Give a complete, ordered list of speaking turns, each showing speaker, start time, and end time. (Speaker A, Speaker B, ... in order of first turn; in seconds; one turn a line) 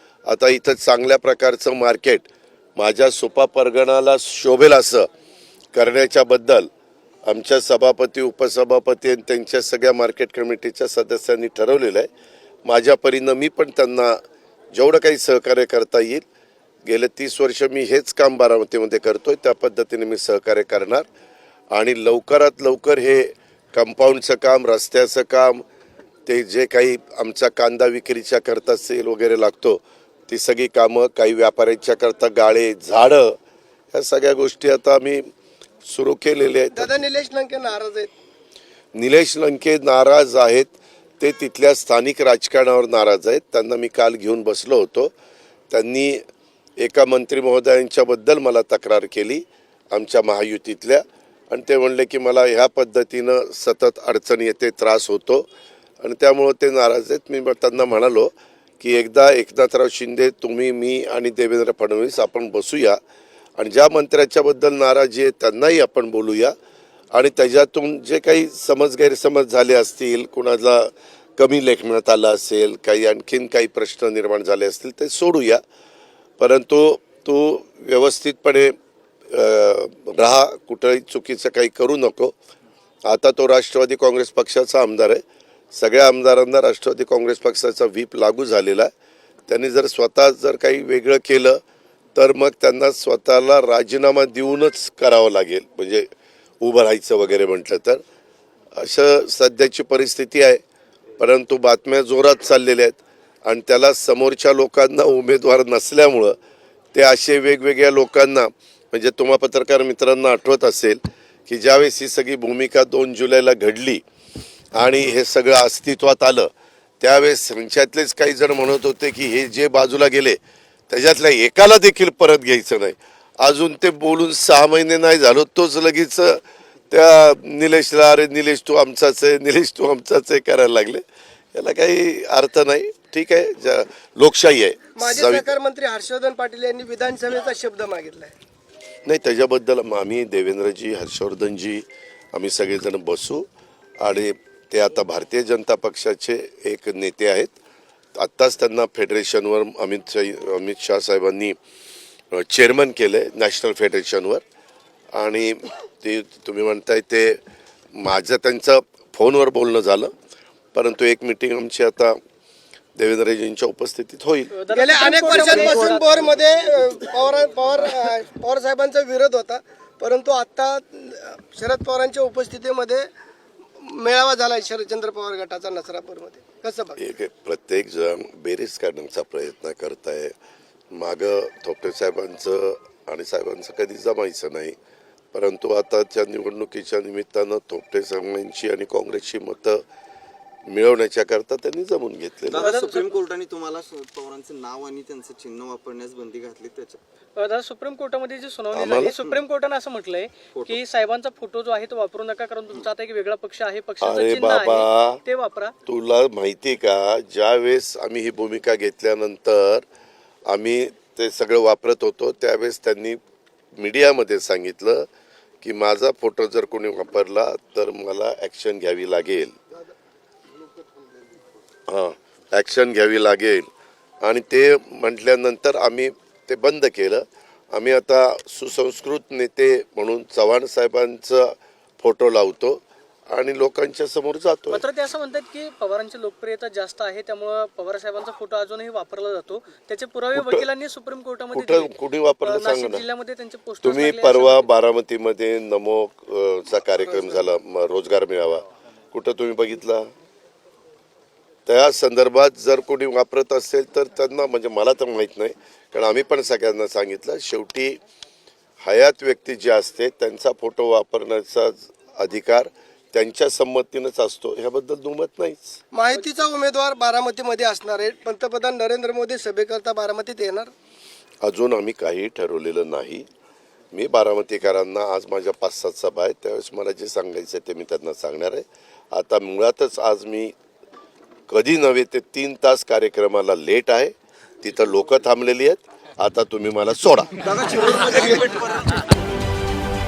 Speaker A: 0.3-5.1
Speaker A: 5.7-6.7
Speaker A: 7.3-12.1
Speaker A: 12.7-14.2
Speaker A: 14.7-16.2
Speaker A: 16.9-21.1
Speaker A: 21.7-25.6
Speaker A: 26.3-33.4
Speaker A: 33.9-35.3
Speaker A: 35.9-36.9
Speaker B: 36.7-38.1
Speaker A: 39.0-45.1
Speaker A: 45.7-46.2
Speaker A: 46.8-55.5
Speaker A: 56.0-63.0
Speaker A: 63.6-66.5
Speaker A: 67.1-75.6
Speaker A: 76.4-78.8
Speaker A: 79.3-82.3
Speaker A: 83.1-85.2
Speaker A: 85.7-88.9
Speaker A: 89.5-91.6
Speaker A: 92.2-96.1
Speaker A: 96.6-98.0
Speaker A: 98.8-100.6
Speaker A: 101.2-106.4
Speaker A: 106.9-114.0
Speaker A: 114.8-116.5
Speaker A: 117.0-120.4
Speaker A: 120.9-131.0
Speaker A: 131.5-135.5
Speaker B: 135.0-138.3
Speaker A: 139.1-143.5
Speaker A: 144.0-147.5
Speaker A: 148.2-151.6
Speaker A: 152.3-154.4
Speaker A: 155.2-157.4
Speaker A: 157.9-160.1
Speaker A: 160.7-162.2
Speaker A: 163.0-164.5
Speaker C: 164.5-166.1
Speaker B: 164.7-173.1
Speaker D: 165.3-166.4
Speaker B: 173.8-177.0
Speaker A: 177.0-180.4
Speaker A: 180.9-184.8
Speaker A: 185.3-189.8
Speaker A: 190.7-192.7
Speaker D: 192.5-197.0
Speaker C: 192.6-193.1
Speaker C: 197.4-205.7
Speaker A: 198.7-199.1
Speaker D: 200.5-200.8
Speaker A: 204.0-205.2
Speaker A: 205.9-209.8
Speaker A: 210.5-213.2
Speaker A: 213.8-215.1
Speaker A: 215.6-219.6
Speaker A: 221.9-223.7
Speaker A: 224.2-234.8
Speaker C: 234.7-244.7
Speaker A: 240.3-240.7
Speaker A: 241.5-243.0
Speaker A: 243.8-250.1
Speaker A: 251.7-258.0
Speaker A: 258.8-265.8
Speaker B: 265.9-270.7
Speaker A: 271.4-273.3
Speaker A: 273.9-280.6
Speaker A: 281.5-288.0
Speaker D: 287.4-289.1